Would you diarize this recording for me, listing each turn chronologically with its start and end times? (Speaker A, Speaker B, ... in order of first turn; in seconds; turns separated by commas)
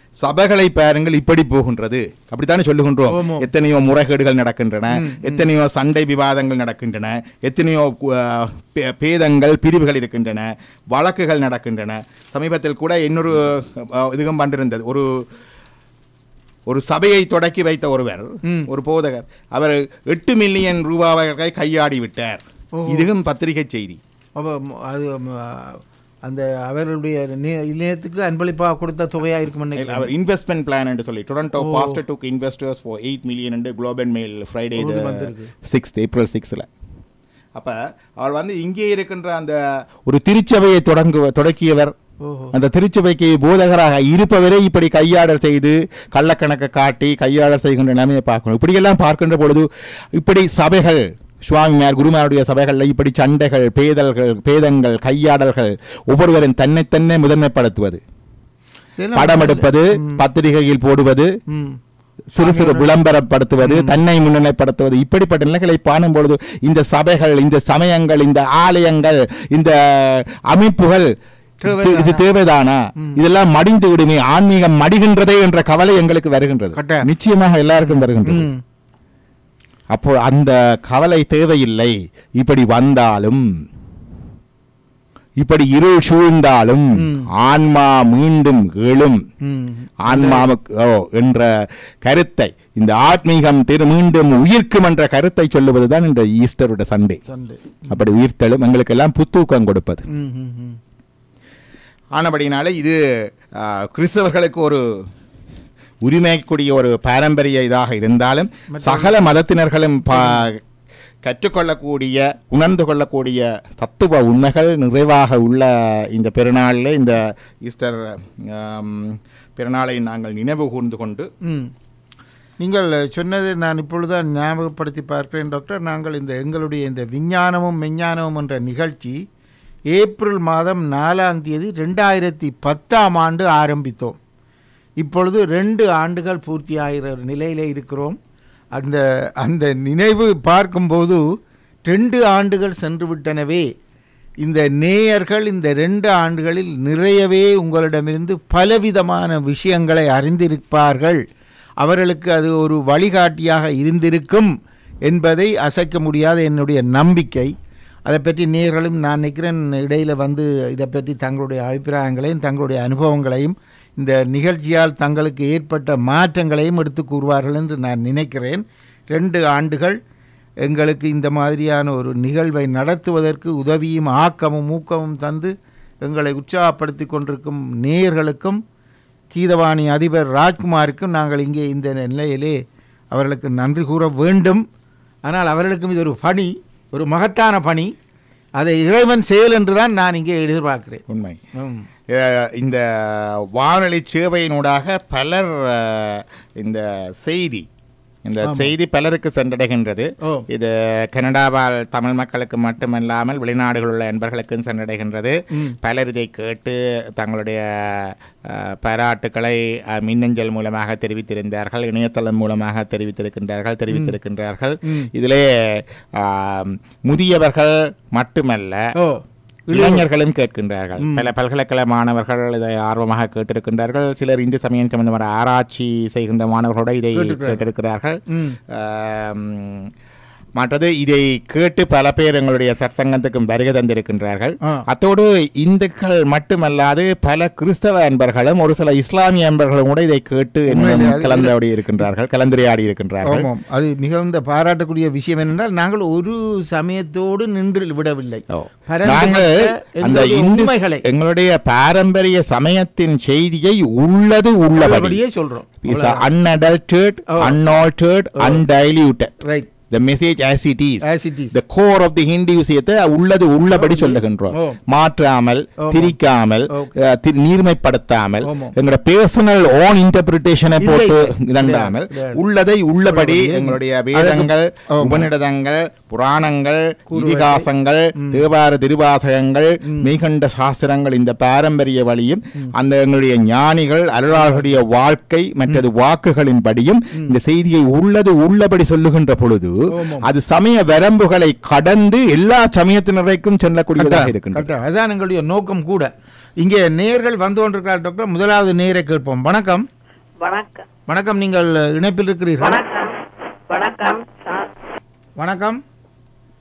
Speaker A: 0.2-15.1, Speaker B: 3.1-3.5, Speaker B: 4.9-5.5, Speaker A: 16.7-24.0, Speaker B: 22.8-23.1, Speaker B: 24.4-30.1, Speaker A: 29.7-36.7, Speaker B: 31.5-32.0, Speaker B: 34.8-35.5, Speaker A: 37.5-41.9, Speaker B: 42.2-42.5, Speaker A: 42.5-58.0, Speaker B: 59.0-60.2, Speaker A: 59.1-61.3, Speaker B: 61.5-61.8, Speaker B: 62.3-62.9, Speaker A: 62.4-71.1, Speaker B: 63.6-64.0, Speaker B: 71.6-72.2, Speaker A: 71.7-78.5, Speaker B: 76.7-77.1, Speaker B: 77.8-78.6, Speaker A: 79.9-83.4, Speaker A: 85.4-89.2, Speaker B: 87.0-87.3, Speaker B: 89.5-90.5, Speaker A: 90.0-91.5, Speaker A: 92.0-97.2, Speaker B: 97.3-98.1, Speaker A: 97.9-100.0, Speaker B: 100.1-100.8, Speaker A: 102.1-103.0, Speaker A: 103.5-104.8, Speaker A: 106.0-110.6, Speaker B: 108.7-109.2, Speaker B: 110.1-110.5, Speaker A: 111.2-121.3, Speaker B: 121.4-121.7, Speaker B: 122.6-129.2, Speaker B: 129.9-134.2, Speaker B: 135.0-138.2, Speaker B: 138.8-141.2, Speaker B: 141.8-143.7, Speaker B: 144.4-151.2, Speaker B: 151.8-154.5, Speaker B: 155.1-157.5, Speaker B: 158.1-170.0, Speaker B: 170.6-175.5, Speaker B: 176.0-178.6, Speaker B: 179.3-182.6, Speaker B: 183.1-184.6, Speaker B: 185.2-187.9, Speaker B: 188.6-191.0, Speaker A: 191.1-191.4, Speaker B: 191.6-191.9, Speaker A: 192.1-197.7, Speaker A: 198.2-218.8, Speaker B: 198.4-198.7, Speaker B: 213.9-214.2, Speaker B: 218.9-220.1, Speaker A: 219.7-229.9, Speaker B: 221.0-221.3, Speaker B: 227.1-227.6, Speaker B: 228.3-228.6, Speaker A: 230.6-243.5, Speaker B: 240.7-241.5, Speaker B: 243.2-251.0, Speaker A: 248.5-255.2, Speaker B: 254.8-256.2, Speaker A: 255.8-259.3, Speaker B: 257.3-257.6, Speaker B: 258.4-258.6, Speaker B: 259.4-259.7, Speaker A: 259.9-294.7, Speaker B: 261.0-261.6, Speaker B: 263.7-264.8, Speaker B: 265.8-266.1, Speaker B: 266.7-267.0, Speaker B: 268.4-268.7, Speaker B: 270.8-272.4, Speaker B: 273.1-275.3, Speaker B: 277.1-278.4, Speaker B: 279.8-280.1, Speaker B: 284.3-284.8, Speaker B: 289.9-290.3, Speaker B: 293.9-299.8, Speaker C: 300.4-300.9, Speaker B: 301.1-302.8, Speaker C: 302.6-303.2, Speaker C: 303.7-304.7, Speaker B: 305.4-305.8